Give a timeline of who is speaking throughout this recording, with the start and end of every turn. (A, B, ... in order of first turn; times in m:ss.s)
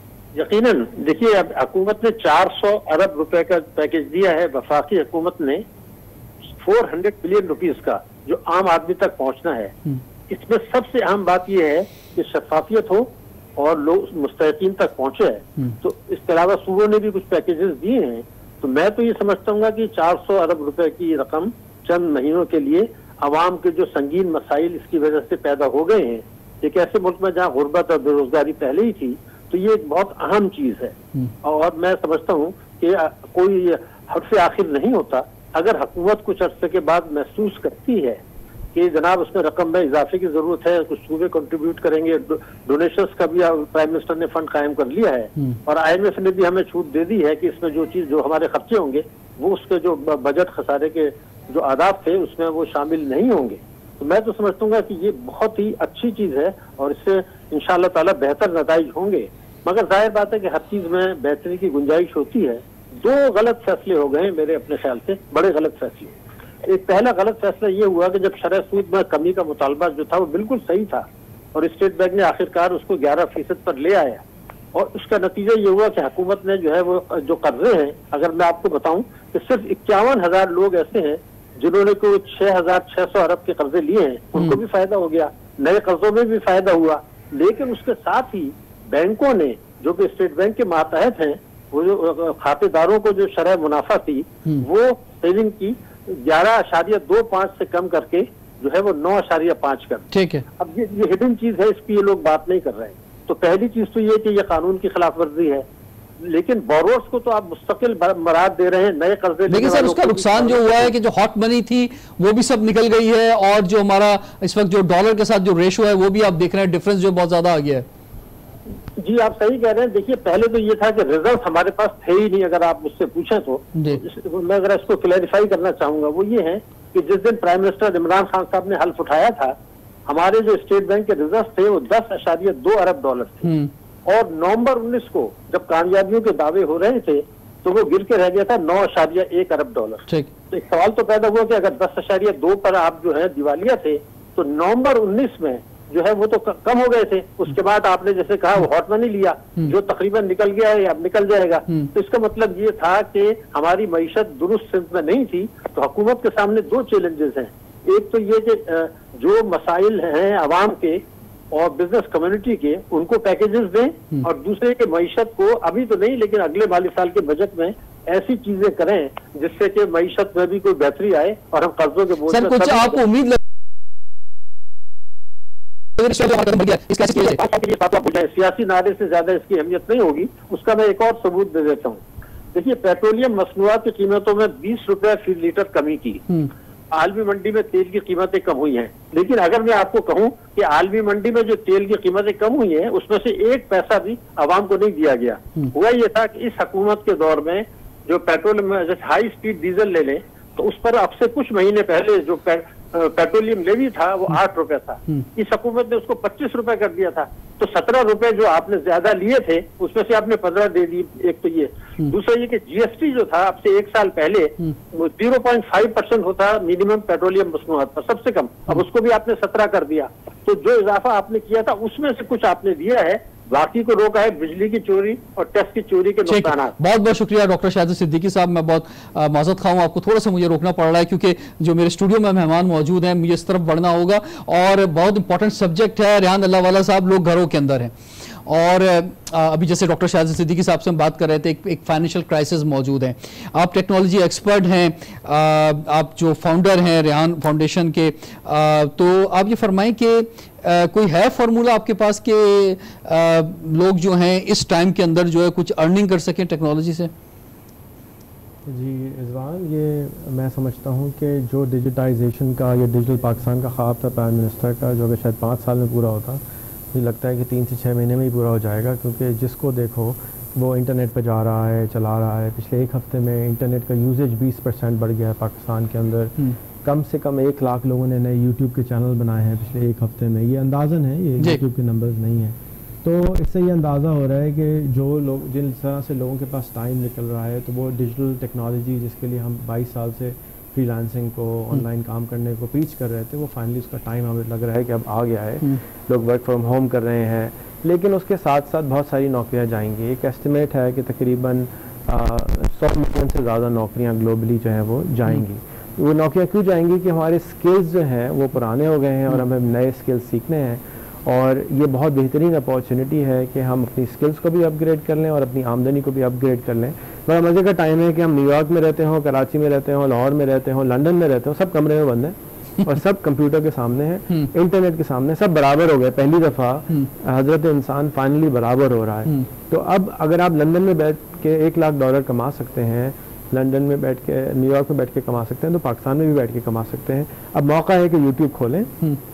0:00.3-0:05.6 A
0:06.6-0:09.7 A
0:10.3-0:38.2 A
0:38.7-1:14.2 A
1:14.7-1:40.1 A
1:40.1-1:40.4 B
1:40.6-1:45.6 A
1:46.2-1:50.9 A
1:49.5-1:57.8 B
1:59.0-2:09.6 A
2:03.8-2:04.0 B
2:10.1-2:13.5 A
2:13.4-2:13.7 B
2:14.1-2:41.0 A
2:41.5-2:53.0 A
2:52.3-2:53.4 B
2:56.0-2:57.5 B
2:57.5-3:02.0 A
3:02.5-3:06.2 A
3:06.9-3:46.7 A
3:46.3-3:57.9 B
3:58.4-4:17.1 B
4:18.7-4:26.4 C
4:26.9-5:38.9 C